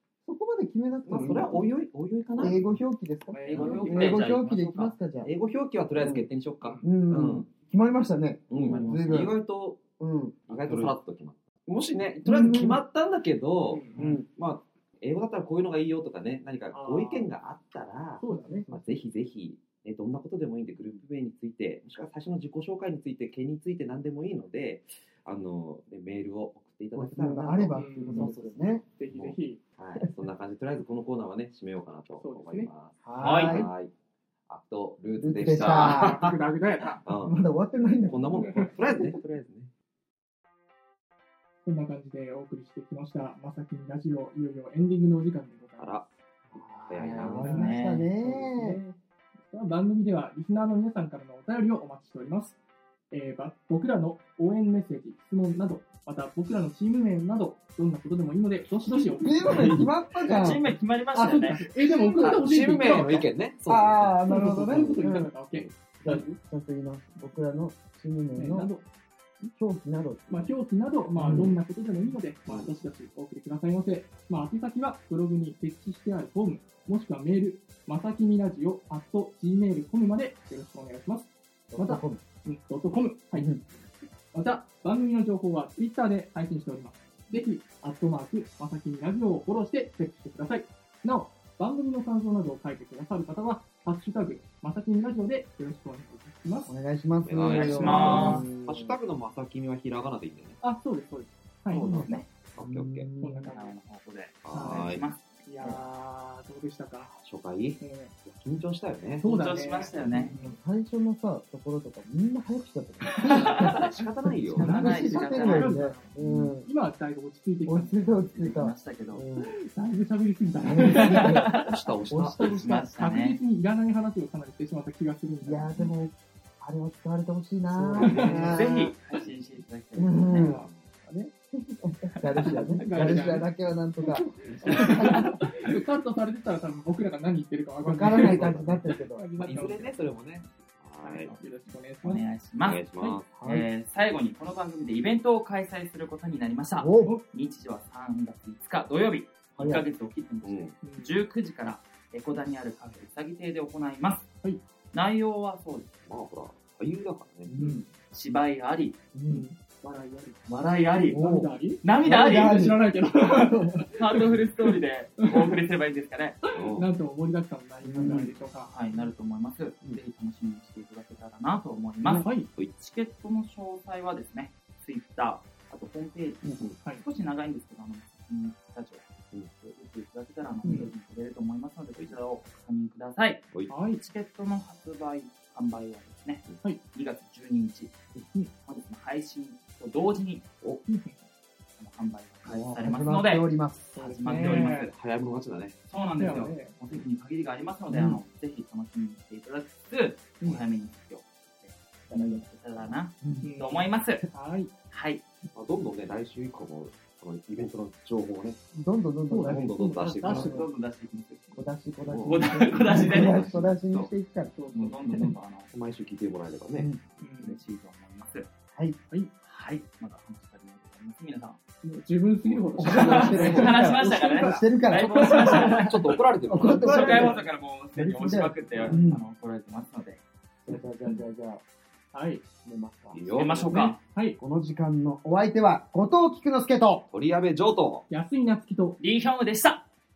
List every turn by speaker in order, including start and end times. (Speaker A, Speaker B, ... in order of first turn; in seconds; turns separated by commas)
Speaker A: 0.2-1.7, Speaker B: 1.0-2.8, Speaker A: 2.4-5.3, Speaker C: 3.3-4.2, Speaker D: 3.4-5.0, Speaker B: 3.5-4.2, Speaker B: 5.2-7.5, Speaker A: 6.0-6.3, Speaker C: 6.6-6.9, Speaker A: 6.8-9.4, Speaker B: 8.5-9.8, Speaker D: 8.5-9.3, Speaker A: 10.0-10.5, Speaker D: 10.5-10.9, Speaker B: 10.5-33.9, Speaker A: 12.2-12.8, Speaker C: 13.7-14.1, Speaker A: 13.9-14.3, Speaker C: 16.7-17.3, Speaker C: 18.2-18.6, Speaker A: 18.3-19.0, Speaker A: 26.9-28.8, Speaker C: 27.7-29.6, Speaker C: 32.2-32.7, Speaker A: 33.0-33.7, Speaker D: 33.2-33.6, Speaker B: 34.5-36.2, Speaker A: 35.2-36.2, Speaker C: 35.6-37.0, Speaker B: 37.0-37.4, Speaker A: 37.1-39.2, Speaker B: 38.1-39.7, Speaker C: 38.3-38.8, Speaker C: 41.6-46.1, Speaker B: 45.8-46.0, Speaker A: 46.5-48.8, Speaker D: 46.5-48.1, Speaker B: 46.9-47.7, Speaker C: 47.2-49.0, Speaker C: 49.5-52.6, Speaker C: 53.1-59.9, Speaker A: 58.8-60.7, Speaker D: 60.2-61.6, Speaker C: 61.1-63.2, Speaker A: 61.8-62.4, Speaker B: 62.2-64.2, Speaker A: 63.7-65.3, Speaker C: 64.2-66.4, Speaker B: 64.7-65.0, Speaker A: 66.0-68.7, Speaker C: 68.3-68.8, Speaker A: 69.5-70.5, Speaker C: 70.3-83.5, Speaker A: 71.2-71.6, Speaker A: 81.7-82.2, Speaker A: 83.3-83.6, Speaker C: 84.3-96.7, Speaker A: 96.7-99.0, Speaker B: 97.2-100.6, Speaker D: 97.3-98.5, Speaker C: 97.8-98.3, Speaker C: 100.6-102.0, Speaker A: 101.7-103.6, Speaker D: 101.8-102.3, Speaker B: 102.5-103.1, Speaker C: 103.2-103.7, Speaker D: 103.5-105.8, Speaker B: 104.4-105.1, Speaker C: 104.5-104.9, Speaker C: 105.4-107.2, Speaker B: 107.2-110.3, Speaker C: 107.8-108.1, Speaker C: 109.2-110.6, Speaker D: 109.2-110.3, Speaker A: 110.1-116.7, Speaker D: 113.3-113.9, Speaker B: 113.4-114.8, Speaker D: 114.6-116.5, Speaker C: 115.1-118.1, Speaker A: 117.7-119.5, Speaker D: 118.3-119.2, Speaker C: 119.4-121.5, Speaker A: 120.6-122.4, Speaker D: 120.8-121.7, Speaker B: 121.5-122.7, Speaker C: 122.4-125.9, Speaker D: 122.5-123.4, Speaker A: 125.4-128.9, Speaker B: 127.7-128.6, Speaker C: 128.0-128.5, Speaker D: 128.5-130.6, Speaker A: 129.9-135.4, Speaker B: 130.5-130.8, Speaker C: 132.3-133.5, Speaker C: 134.0-139.9, Speaker D: 134.6-135.7, Speaker A: 137.8-139.2, Speaker B: 138.1-138.8, Speaker B: 139.3-141.4, Speaker C: 141.0-142.2, Speaker D: 142.0-142.8, Speaker B: 142.7-143.3, Speaker A: 143.3-143.7, Speaker D: 143.4-154.3, Speaker A: 146.8-147.1, Speaker A: 149.6-149.8, Speaker B: 150.4-150.7, Speaker C: 150.8-151.1, Speaker D: 154.9-155.9, Speaker B: 156.1-157.5, Speaker A: 157.4-157.8, Speaker D: 158.1-159.0, Speaker A: 159.1-159.5, Speaker C: 159.3-160.4, Speaker D: 160.4-161.2, Speaker C: 160.9-165.6, Speaker A: 161.1-162.8, Speaker D: 161.8-162.8, Speaker D: 163.9-166.4, Speaker C: 166.5-168.8, Speaker B: 166.5-166.9, Speaker A: 167.8-168.3, Speaker D: 168.7-188.0, Speaker C: 172.0-172.5, Speaker A: 180.6-180.9, Speaker C: 180.6-180.9, Speaker C: 183.7-184.0, Speaker D: 188.5-190.4, Speaker C: 190.9-191.2, Speaker D: 191.8-194.9, Speaker A: 192.4-193.9, Speaker C: 193.9-194.9, Speaker B: 194.4-195.8, Speaker D: 195.9-204.2, Speaker C: 196.2-196.7, Speaker A: 197.9-198.2, Speaker A: 202.1-202.4, Speaker A: 203.2-203.5, Speaker C: 203.4-204.7, Speaker D: 204.9-205.2, Speaker B: 205.5-208.6, Speaker A: 208.7-210.6, Speaker C: 209.3-210.7, Speaker B: 209.4-210.6, Speaker D: 210.2-211.6, Speaker A: 211.5-215.3, Speaker B: 212.1-214.1, Speaker D: 212.2-213.5, Speaker C: 214.6-215.2, Speaker D: 214.7-215.7, Speaker B: 215.7-217.1, Speaker A: 216.7-217.0, Speaker C: 217.2-217.6, Speaker D: 217.4-218.5, Speaker D: 219.4-221.6, Speaker C: 221.8-225.6, Speaker B: 222.4-223.8, Speaker A: 222.8-229.2, Speaker D: 222.9-226.0, Speaker B: 225.2-227.4, Speaker D: 226.6-230.2, Speaker A: 230.7-231.6, Speaker C: 232.1-232.4, Speaker A: 232.6-233.2, Speaker B: 233.1-233.9, Speaker D: 233.3-234.0, Speaker C: 233.7-234.4, Speaker A: 234.4-237.0, Speaker B: 237.1-238.1, Speaker C: 238.1-239.0, Speaker D: 239.0-239.8